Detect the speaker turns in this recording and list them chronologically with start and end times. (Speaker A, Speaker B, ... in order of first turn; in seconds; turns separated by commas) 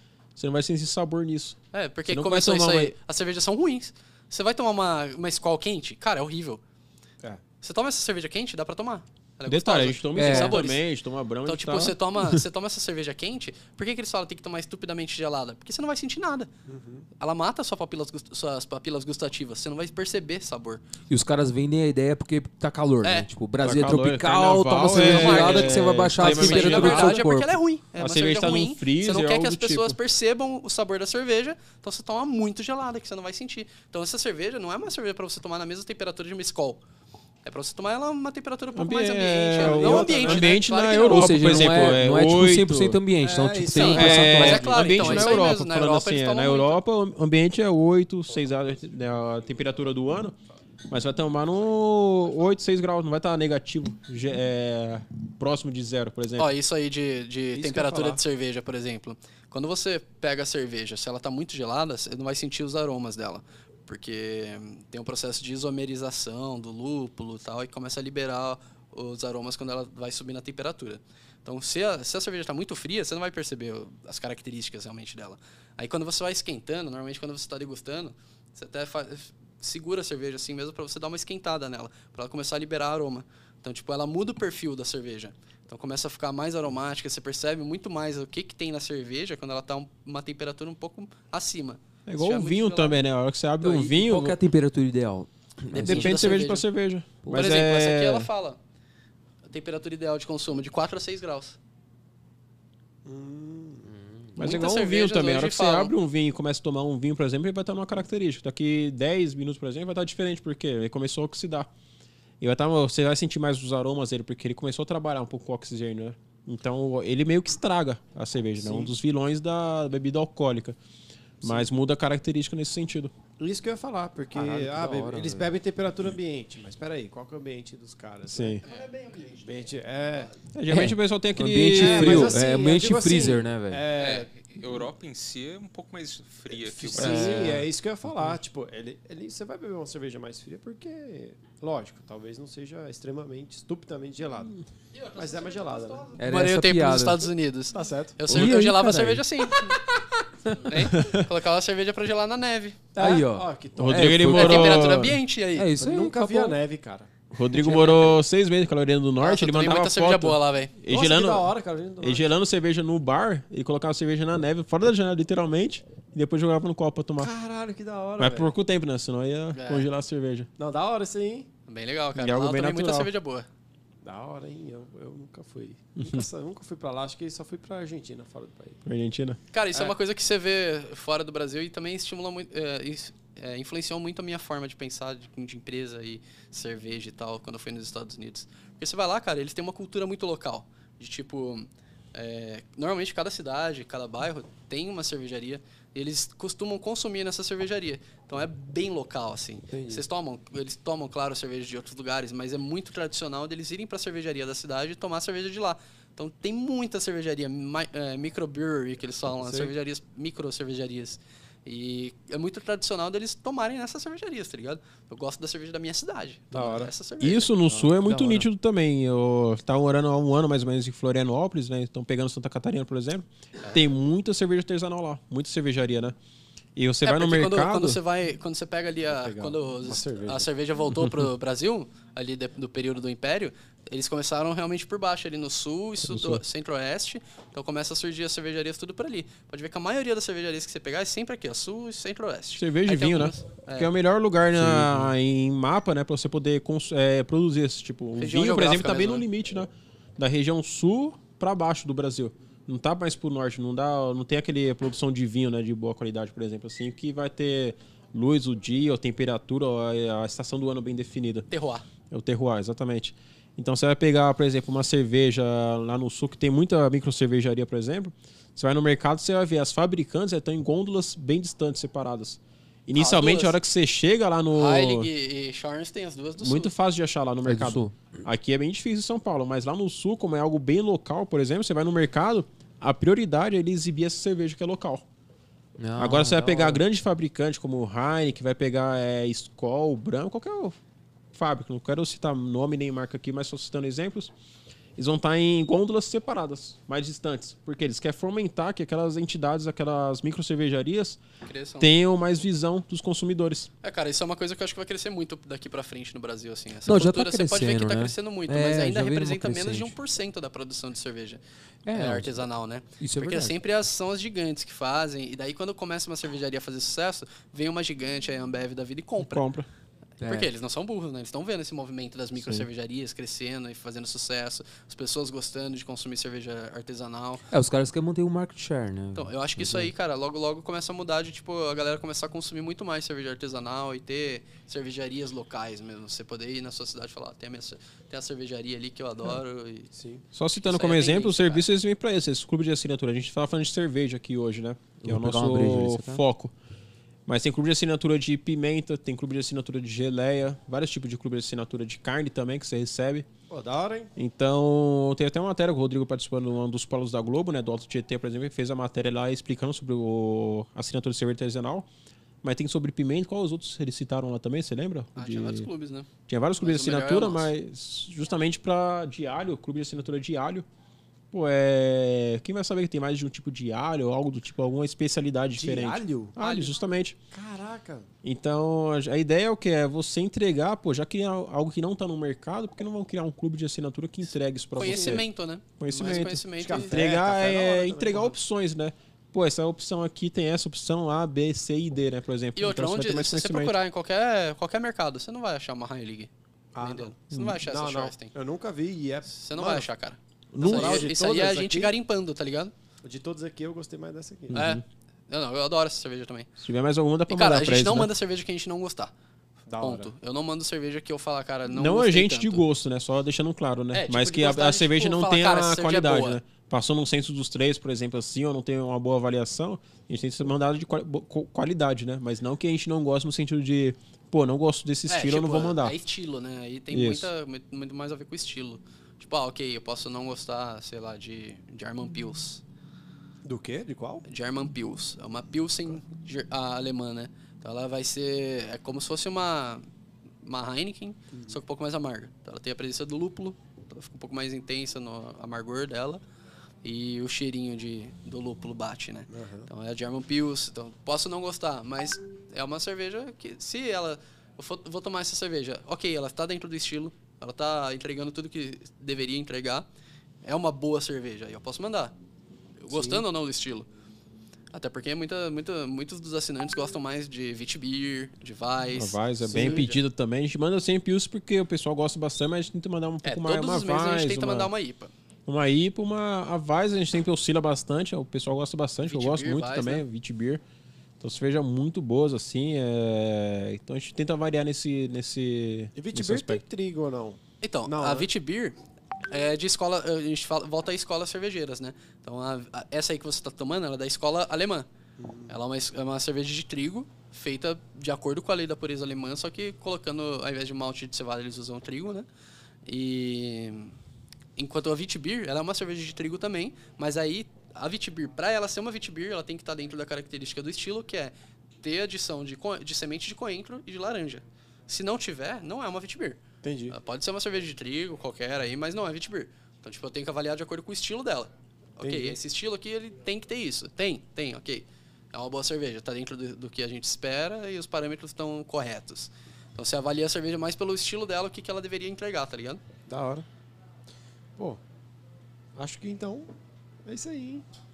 Speaker A: 0.3-2.9, Speaker B: 1.7-6.6, Speaker B: 7.6-10.8, Speaker A: 9.5-12.4, Speaker C: 10.2-10.6, Speaker B: 11.4-16.5, Speaker D: 16.7-17.1, Speaker B: 17.2-20.8, Speaker C: 21.1-27.5, Speaker A: 23.6-27.2, Speaker B: 24.9-36.8, Speaker A: 28.0-30.0, Speaker B: 37.4-41.9, Speaker A: 38.7-43.0, Speaker D: 39.5-40.6, Speaker C: 41.0-44.6, Speaker D: 43.2-45.3, Speaker B: 43.7-46.8, Speaker A: 43.9-50.4, Speaker A: 50.9-56.5, Speaker B: 56.4-93.0, Speaker D: 57.5-58.2, Speaker A: 92.1-94.4, Speaker C: 93.6-96.4, Speaker B: 95.7-96.7, Speaker A: 95.7-98.3, Speaker B: 97.3-98.6, Speaker B: 99.5-101.6, Speaker D: 103.0-103.9, Speaker C: 103.8-104.4, Speaker A: 104.4-111.7, Speaker B: 104.4-105.9, Speaker A: 112.4-120.8, Speaker D: 118.6-118.9, Speaker A: 121.4-123.1, Speaker D: 121.4-121.7, Speaker D: 123.4-128.8, Speaker C: 124.3-125.5, Speaker A: 128.2-128.6, Speaker B: 128.6-129.5, Speaker D: 129.4-130.3, Speaker A: 130.5-132.4, Speaker C: 130.7-133.8, Speaker D: 131.7-134.3, Speaker E: 133.9-137.5, Speaker D: 136.5-144.6, Speaker C: 136.9-137.7, Speaker B: 144.9-149.9, Speaker D: 145.1-146.1, Speaker C: 146.2-147.2, Speaker D: 147.7-148.5, Speaker C: 148.3-150.6, Speaker B: 150.6-152.8, Speaker A: 150.9-151.3, Speaker D: 152.9-154.2, Speaker C: 153.0-154.9, Speaker A: 153.8-155.2, Speaker B: 154.3-155.7, Speaker C: 155.5-156.6, Speaker D: 155.8-157.1, Speaker A: 157.3-167.3, Speaker B: 157.8-158.1, Speaker B: 159.2-160.7, Speaker D: 160.9-162.2, Speaker D: 167.2-168.5, Speaker A: 168.2-170.5, Speaker B: 169.5-169.9, Speaker D: 170.6-171.5, Speaker B: 171.7-173.5, Speaker A: 172.1-173.1, Speaker D: 174.0-178.8, Speaker A: 176.0-176.2, Speaker A: 178.8-179.4, Speaker B: 179.5-217.5, Speaker D: 199.7-200.0, Speaker D: 209.4-209.7, Speaker D: 216.5-216.9, Speaker A: 217.2-226.2, Speaker C: 218.0-218.5, Speaker A: 226.8-228.0, Speaker B: 227.0-243.9, Speaker D: 229.1-230.5, Speaker A: 236.0-236.4, Speaker A: 242.6-261.4, Speaker C: 244.6-245.1, Speaker B: 248.2-249.2, Speaker B: 261.5-261.8, Speaker A: 262.1-275.1, Speaker B: 272.9-273.6, Speaker B: 274.5-276.7, Speaker A: 276.4-285.0, Speaker C: 277.4-278.0, Speaker C: 285.8-286.8, Speaker A: 286.0-290.8, Speaker A: 291.3-294.3, Speaker A: 294.9-301.2, Speaker B: 301.4-301.9, Speaker A: 301.8-303.7, Speaker B: 303.8-311.4, Speaker C: 306.9-309.9, Speaker C: 311.8-312.4, Speaker B: 311.9-319.4, Speaker C: 313.0-313.6, Speaker A: 319.2-319.7, Speaker C: 320.2-320.5, Speaker B: 320.2-327.4, Speaker A: 322.4-322.7, Speaker C: 327.5-329.9, Speaker B: 329.1-339.9, Speaker D: 339.9-340.2, Speaker A: 340.3-346.5, Speaker B: 340.6-341.7, Speaker C: 345.0-346.2, Speaker A: 347.2-353.3, Speaker D: 353.5-354.1, Speaker A: 354.1-361.9, Speaker A: 362.4-365.7, Speaker B: 365.1-367.5, Speaker A: 366.3-370.6, Speaker A: 371.3-377.1, Speaker D: 375.5-376.3, Speaker B: 376.4-376.7, Speaker D: 377.3-378.1, Speaker A: 378.2-385.2, Speaker B: 384.7-387.0, Speaker D: 384.8-385.2, Speaker A: 385.8-393.8, Speaker D: 386.6-388.4, Speaker B: 392.6-398.3, Speaker D: 396.7-399.9, Speaker A: 397.3-397.6, Speaker B: 399.3-402.7, Speaker A: 400.5-401.1, Speaker D: 400.6-401.9, Speaker D: 403.0-404.6, Speaker A: 404.5-404.8, Speaker B: 404.5-406.5, Speaker A: 406.6-408.1, Speaker B: 407.3-409.1, Speaker D: 409.7-410.1, Speaker B: 409.8-412.6, Speaker A: 411.7-426.0, Speaker B: 413.9-416.4, Speaker B: 425.1-432.6, Speaker A: 426.9-427.3, Speaker D: 433.4-434.2, Speaker B: 434.2-439.8, Speaker B: 440.4-446.2, Speaker D: 441.3-441.6, Speaker B: 446.8-459.8, Speaker D: 449.3-449.7, Speaker B: 460.4-462.1, Speaker B: 462.8-463.9, Speaker D: 462.9-463.2, Speaker B: 464.7-469.9, Speaker A: 468.9-474.7, Speaker D: 469.4-470.0, Speaker B: 473.2-475.1, Speaker A: 475.5-480.6, Speaker B: 479.1-480.0, Speaker A: 481.2-486.6, Speaker D: 485.9-488.3, Speaker B: 487.6-488.8, Speaker B: 489.3-494.9, Speaker D: 495.2-495.6, Speaker B: 495.5-502.2, Speaker B: 502.9-503.9, Speaker B: 504.6-532.8, Speaker D: 516.6-517.0, Speaker D: 522.0-522.4, Speaker D: 533.1-533.5, Speaker D: 535.8-536.5, Speaker D: 537.0-537.6